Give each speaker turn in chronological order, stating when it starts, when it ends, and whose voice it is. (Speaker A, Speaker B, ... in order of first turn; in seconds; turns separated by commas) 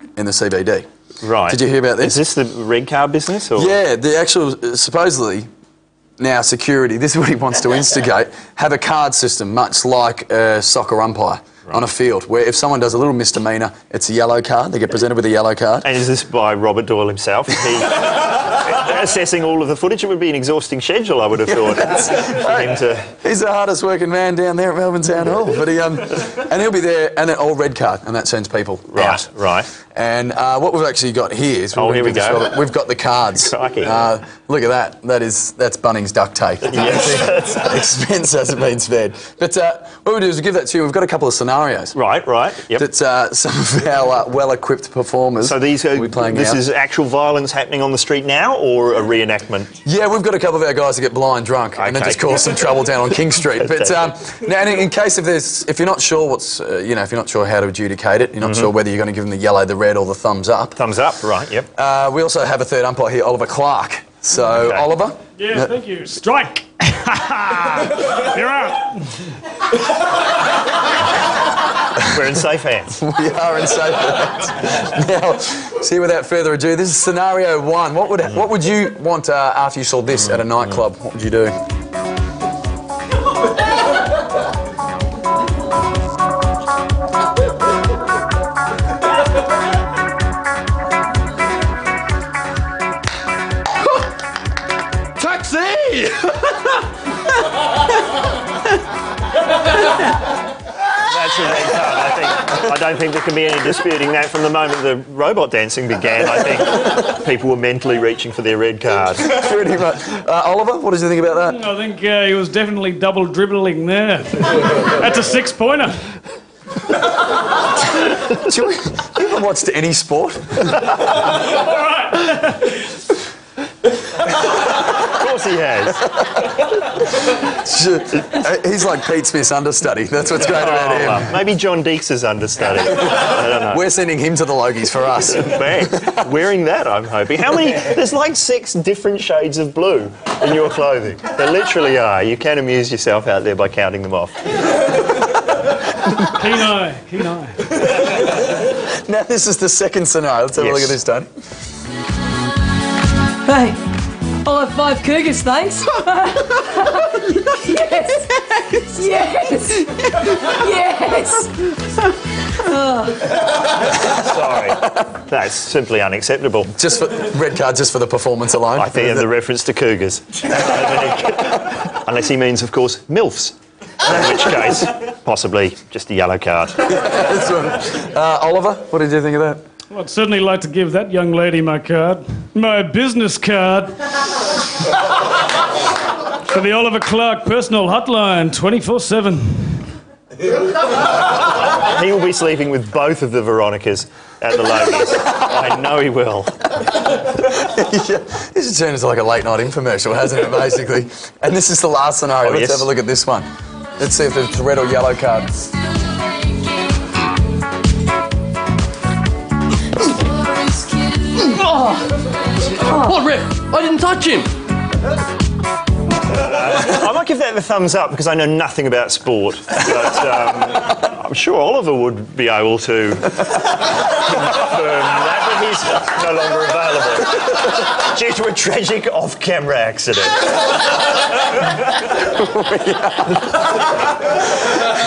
Speaker A: 0.2-0.9, Speaker B: 1.2-3.8, Speaker A: 1.5-2.2, Speaker A: 3.6-5.5, Speaker A: 6.2-15.9, Speaker B: 15.8-23.2, Speaker A: 21.6-29.3, Speaker B: 28.9-29.7, Speaker A: 29.9-42.0, Speaker B: 31.8-32.6, Speaker B: 33.4-34.2, Speaker B: 36.6-37.7, Speaker B: 41.9-42.9, Speaker A: 42.8-46.6, Speaker B: 45.4-49.8, Speaker A: 49.8-60.8, Speaker B: 51.8-52.3, Speaker B: 53.6-54.1, Speaker B: 58.4-58.7, Speaker B: 60.8-61.7, Speaker A: 61.8-65.7, Speaker B: 64.5-64.9, Speaker C: 65.4-69.3, Speaker B: 72.1-73.0, Speaker A: 73.0-81.5, Speaker B: 80.1-80.8, Speaker A: 95.2-96.5, Speaker B: 101.0-109.3, Speaker A: 109.2-111.6, Speaker C: 111.5-116.0, Speaker A: 118.3-121.0, Speaker C: 121.4-122.8, Speaker B: 124.8-126.1, Speaker A: 126.2-131.3, Speaker B: 130.4-133.8, Speaker A: 133.2-136.1, Speaker B: 135.2-144.5, Speaker C: 146.2-147.7, Speaker A: 147.7-151.3, Speaker B: 150.6-151.0, Speaker D: 153.4-153.8, Speaker D: 154.4-163.4, Speaker B: 164.0-166.8, Speaker A: 166.8-169.3, Speaker B: 168.8-176.9, Speaker A: 176.9-179.6, Speaker C: 179.9-184.1, Speaker C: 186.4-189.9, Speaker B: 191.6-196.7, Speaker A: 197.3-203.5, Speaker B: 202.4-202.9, Speaker A: 204.0-205.5, Speaker D: 211.2-212.1, Speaker E: 211.6-211.9, Speaker D: 212.6-213.1, Speaker E: 212.9-214.5, Speaker B: 216.3-230.7, Speaker A: 232.0-233.7